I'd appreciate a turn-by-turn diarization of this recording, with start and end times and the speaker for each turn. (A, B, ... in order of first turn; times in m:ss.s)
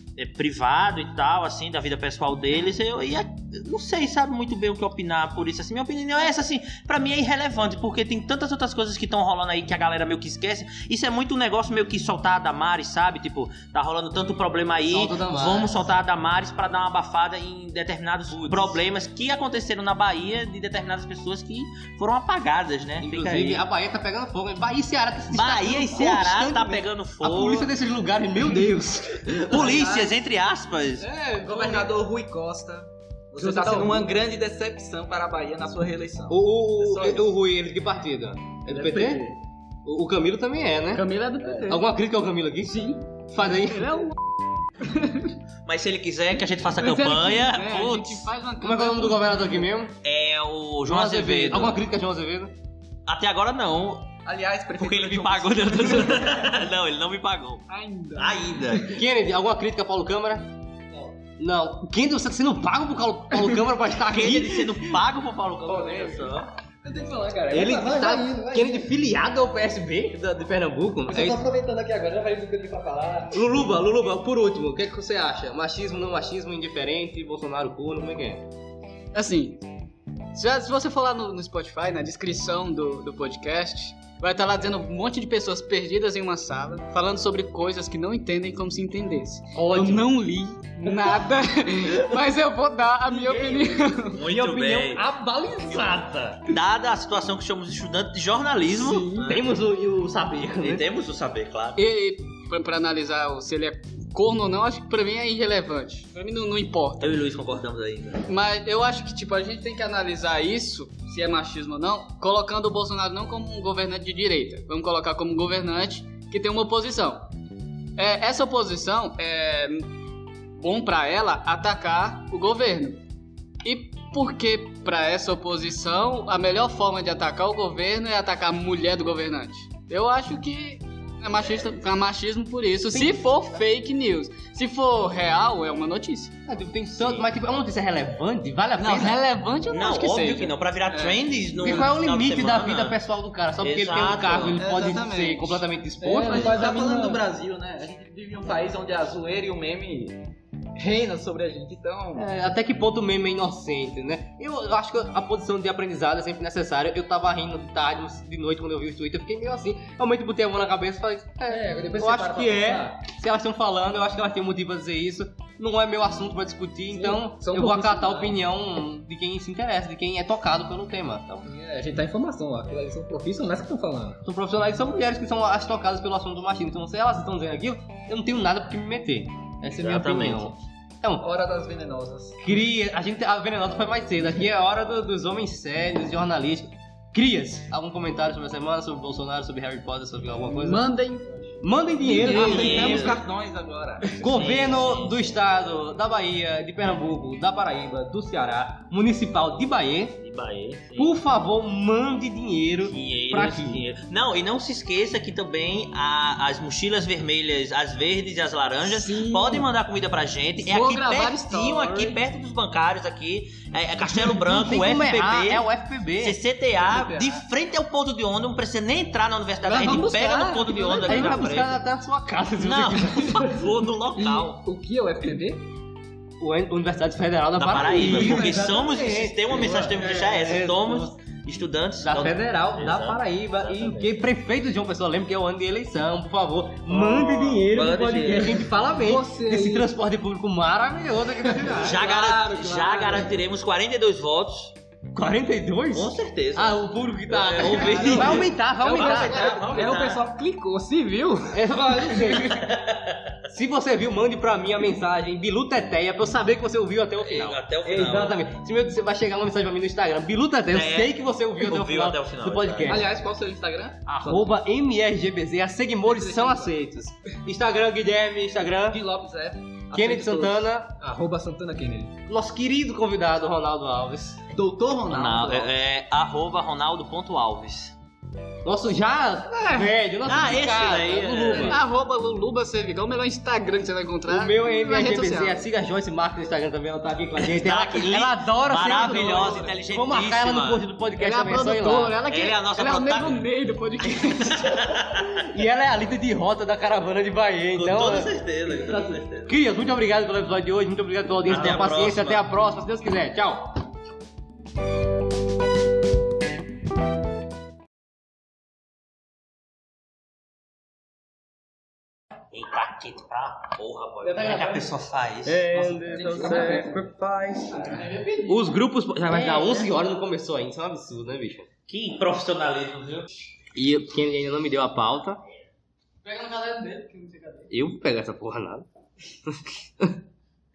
0:00.2-0:23.6 A
0:14.9-0:15.7 B
0:18.3-0:18.8 B
0:23.0-0:29.7 B
0:25.3-0:27.7 A
0:29.3-0:31.0 A
0:29.5-0:30.1 C
0:31.0-0:37.3 C
0:31.4-0:31.9 B
0:33.4-0:34.0 D
0:36.3-0:41.0 B
0:38.7-0:39.4 C
0:40.9-0:41.8 D
0:41.6-0:44.0 B
0:42.7-0:43.0 D
0:43.6-0:44.2 D
0:44.8-0:45.4 D
0:45.6-0:48.3 A
0:46.7-0:49.4 D
0:48.6-0:50.0 B
0:50.0-0:51.8 A
0:50.8-0:52.5 B
0:53.1-0:54.1 A
0:54.2-0:56.5 C
0:54.8-0:59.0 A
0:57.7-0:58.8 D
0:58.8-1:00.5 B
1:01.4-1:05.0 B
1:04.0-1:06.5 A
1:06.8-1:08.9 E
1:07.5-1:11.4 B
1:11.1-1:13.4 E
1:13.3-1:18.5 B
1:19.1-1:19.6 D
1:20.3-1:34.2 D
1:29.5-1:30.1 B
1:30.8-1:31.1 B
1:33.1-1:33.7 B
1:34.0-1:35.0 A
1:34.2-1:36.5 B
1:36.5-1:39.5 A
1:38.8-1:39.3 D
1:39.2-1:40.8 B
1:40.6-1:41.8 A
1:41.8-1:47.2 D
1:47.0-1:48.3 A
1:48.3-1:57.3 D
1:58.0-1:59.9 D
2:00.6-2:03.0 D
2:03.6-2:16.3 D
2:16.4-2:19.2 B
2:18.8-2:21.2 D
2:19.7-2:23.0 A
2:21.6-2:26.6 B
2:23.6-2:24.6 A
2:24.6-2:25.3 C
2:24.6-2:25.4 D
2:26.0-2:27.2 E
2:26.1-2:32.3 C
2:32.1-2:51.5 B
2:41.5-2:43.0 E
2:46.9-2:48.4 E
2:51.4-2:54.2 E
2:54.2-3:01.3 B
2:59.7-3:00.6 A
3:01.2-3:02.3 C
3:01.8-3:02.3 E
3:02.4-3:10.9 B
3:10.6-3:11.4 D
3:11.6-3:13.1 B
3:12.0-3:14.2 C
3:12.1-3:13.1 D
3:12.2-3:13.2 A
3:14.2-3:20.2 B
3:14.2-3:15.2 A
3:20.2-3:21.1 A
3:21.0-3:23.8 B
3:22.9-3:41.8 A
3:29.2-3:29.6 E
3:30.6-3:32.2 D
3:34.3-3:36.4 B
3:36.8-3:37.2 C
3:39.6-3:41.4 E
3:41.0-3:43.7 B
3:42.6-3:44.6 A
3:44.2-3:45.7 E
3:46.4-3:51.1 B
3:47.6-3:54.1 A
3:52.0-4:02.2 B
3:56.9-3:58.6 A
3:58.9-3:59.9 E
4:01.6-4:03.4 E
4:01.7-4:04.7 A
4:05.1-4:09.6 B
4:05.9-4:10.2 A
4:07.8-4:12.4 E
4:08.1-4:08.4 C
4:09.1-4:09.8 C
4:11.5-4:12.7 B
4:12.6-4:13.3 A
4:13.5-4:23.1 B
4:17.2-4:18.5 A
4:20.7-4:23.0 A
4:22.9-4:24.5 C
4:24.0-4:29.0 B
4:26.1-4:26.6 C
4:28.9-4:30.6 C
4:29.9-4:30.9 B
4:31.0-4:32.2 E
4:32.3-4:34.4 B
4:34.5-4:35.7 C
4:35.1-4:37.9 A
4:38.6-4:41.8 B
4:40.2-4:41.8 A
4:41.4-4:41.7 C
4:41.6-4:45.6 D
4:44.3-4:52.2 B
4:47.4-4:50.8 A
4:48.8-4:49.7 C
4:51.2-4:55.0 D
4:52.2-4:53.4 A
4:54.2-4:55.4 A
4:55.3-5:03.7 B
4:57.7-4:59.5 A
5:01.4-5:02.5 A
5:12.5-5:15.6 A
5:15.4-5:17.2 B
5:15.8-5:17.0 E
5:16.2-5:17.1 C
5:17.9-5:18.5 D
5:18.4-5:21.7 B
5:21.9-5:23.3 A
5:23.8-5:25.4 B
5:26.2-5:27.7 D
5:27.7-5:28.8 B
5:29.4-5:30.2 B